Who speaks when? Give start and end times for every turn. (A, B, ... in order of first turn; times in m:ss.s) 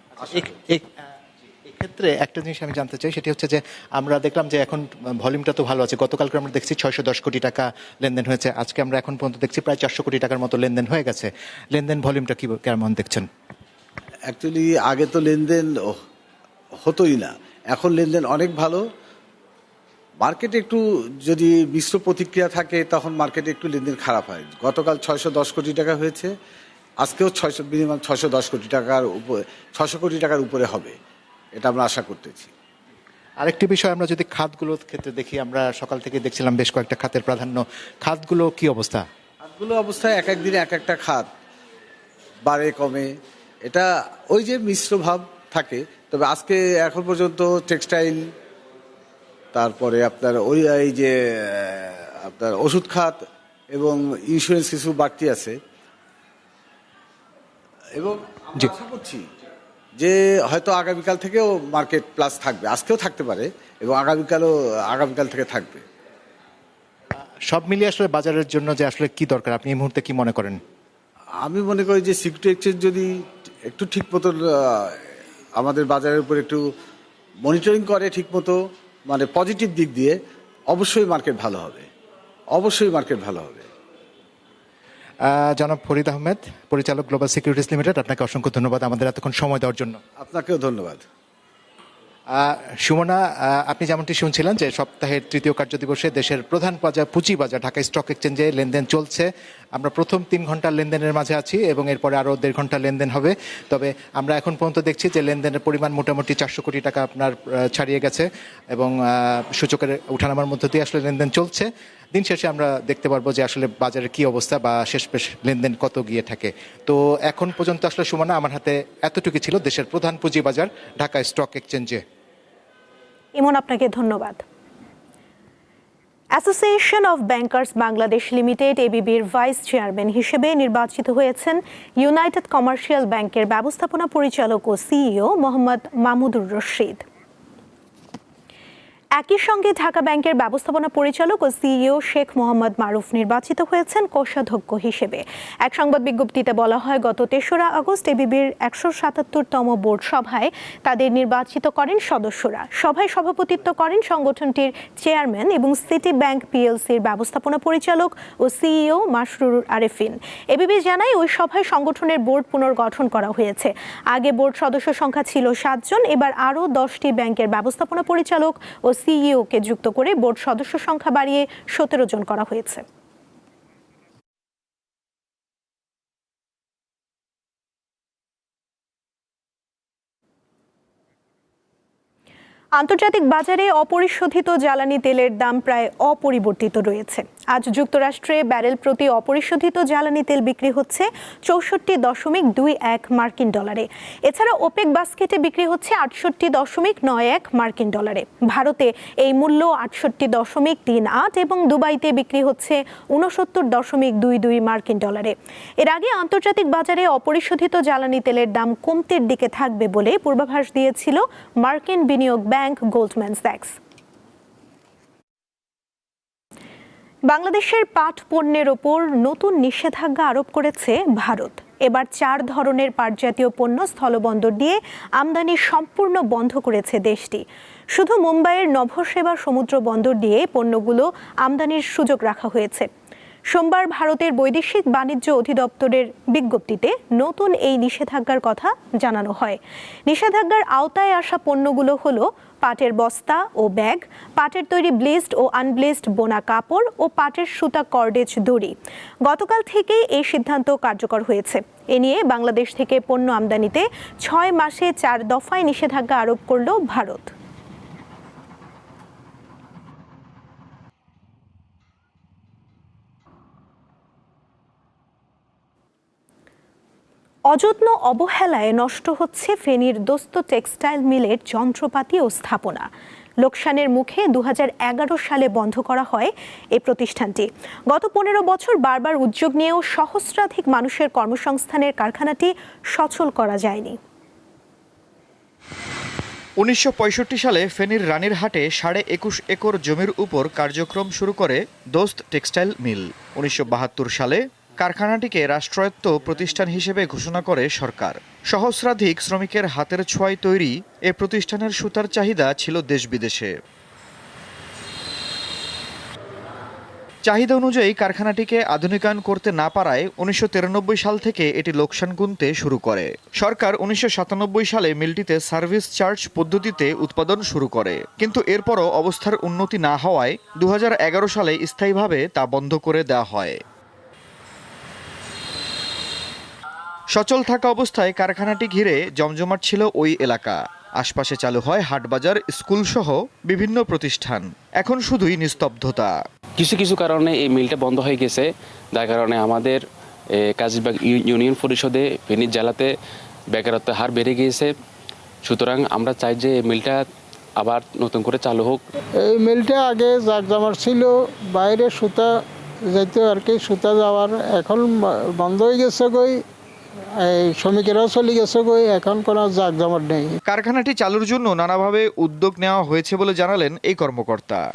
0:00.3-0:00.9 A
0:01.6-0:13.3 A
0:14.3-0:16.0 B
0:16.8-0:18.8 B
0:20.2-0:26.3 B
0:27.0-0:31.0 B
0:31.6-0:32.5 B
0:33.4-0:39.0 A
0:39.4-0:41.3 B
0:42.5-0:43.1 B
0:43.7-0:48.2 B
0:49.5-0:53.2 B
0:53.7-0:55.6 B
0:58.0-0:59.3 B
1:00.0-1:05.8 B
1:07.5-1:10.6 A
1:11.4-1:13.1 B
1:13.7-1:15.0 B
1:15.6-1:16.6 B
1:17.4-1:20.2 B
1:20.7-1:21.9 B
1:22.6-1:23.7 B
1:25.2-1:30.0 A
1:30.2-1:31.0 B
1:32.3-2:02.0 A
2:03.4-2:04.4 C
2:06.4-2:17.0 C
2:19.2-2:52.8 C
3:02.8-3:33.8 C
3:37.3-3:52.9 C
3:53.5-4:17.3 C
4:27.5-4:32.9 C
4:33.4-4:44.0 C
4:46.6-5:03.6 D
5:07.2-5:23.6 D
5:27.1-5:36.2 D
5:36.6-5:39.8 E
5:40.3-5:42.9 E
5:43.5-5:44.7 E
5:45.4-5:47.1 E
5:47.6-5:48.8 E
5:49.2-5:56.4 F
5:57.2-6:00.4 F
6:00.5-6:04.6 D